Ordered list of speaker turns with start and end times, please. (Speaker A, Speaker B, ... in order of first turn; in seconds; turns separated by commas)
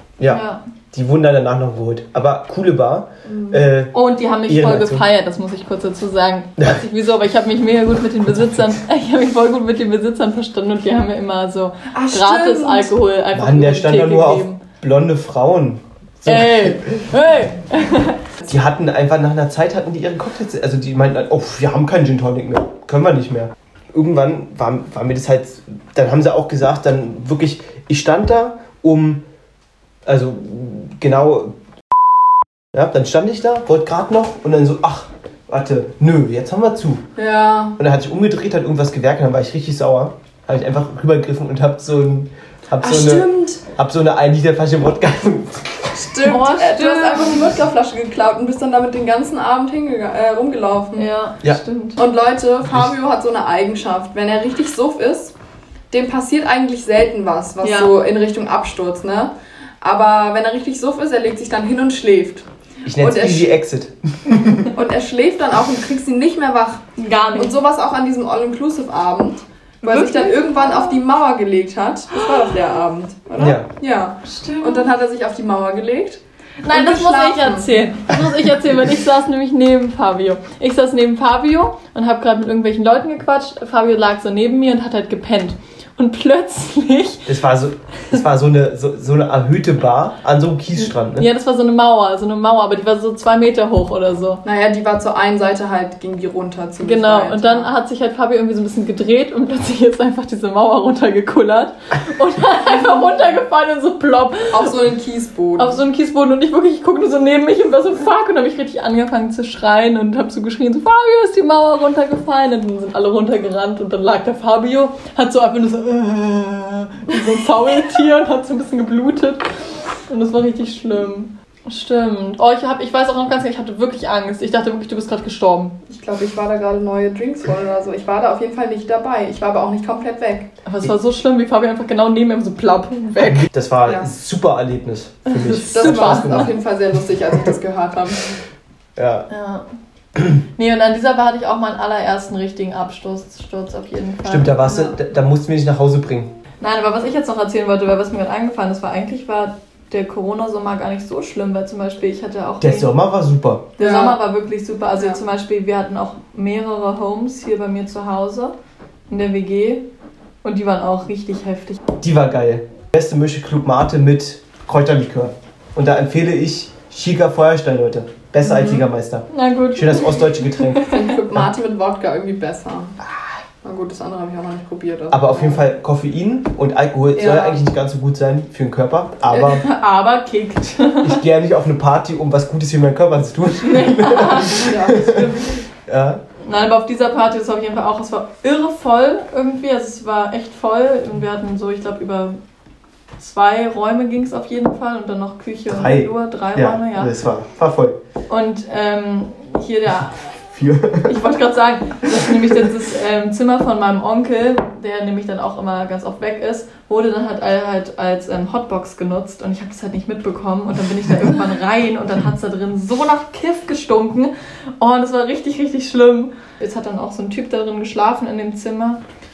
Speaker A: 0.2-3.9, Speaker B: 0.3-0.6, Speaker C: 3.2-3.7, Speaker B: 3.9-14.6, Speaker A: 4.5-5.0, Speaker C: 11.9-12.9, Speaker A: 13.3-17.1, Speaker B: 16.2-18.2, Speaker A: 18.5-29.2, Speaker A: 30.1-31.5, Speaker A: 32.7-37.0, Speaker C: 37.2-37.8, Speaker A: 37.8-46.1, Speaker C: 42.8-43.6, Speaker C: 46.0-51.1, Speaker B: 46.2-47.5, Speaker B: 50.9-52.0, Speaker C: 52.0-55.3, Speaker C: 55.9-62.5, Speaker B: 57.6-57.9, Speaker A: 62.9-64.7, Speaker C: 63.0-63.5, Speaker C: 64.7-77.9, Speaker B: 67.0-67.5, Speaker B: 69.8-71.0, Speaker A: 73.4-73.7, Speaker B: 74.2-74.9, Speaker B: 76.6-87.3, Speaker A: 87.3-91.3, Speaker B: 90.8-94.4, Speaker C: 94.4-97.7, Speaker B: 96.8-104.8, Speaker C: 104.5-105.8, Speaker B: 105.6-119.5, Speaker B: 120.1-125.8, Speaker C: 125.9-130.5, Speaker B: 130.7-133.5, Speaker A: 133.3-136.6, Speaker B: 135.3-136.5, Speaker C: 135.7-138.3, Speaker A: 138.9-139.3, Speaker B: 139.3-139.7, Speaker B: 140.6-144.9, Speaker A: 144.2-146.3, Speaker B: 146.6-152.9, Speaker A: 152.6-153.7, Speaker C: 153.8-154.2, Speaker B: 153.8-158.5, Speaker B: 159.1-159.8, Speaker B: 160.4-161.8, Speaker A: 162.0-171.5, Speaker C: 168.4-168.8, Speaker B: 169.3-171.1, Speaker C: 170.9-173.0, Speaker C: 173.6-175.7, Speaker A: 175.1-179.6, Speaker C: 177.1-177.6, Speaker C: 179.3-179.6, Speaker B: 179.5-181.2, Speaker A: 181.0-186.2, Speaker B: 183.6-184.9, Speaker C: 184.6-185.5, Speaker B: 186.4-192.4, Speaker B: 193.2-197.1, Speaker A: 195.7-198.0, Speaker B: 198.3-200.2, Speaker A: 200.5-201.3, Speaker B: 201.0-219.0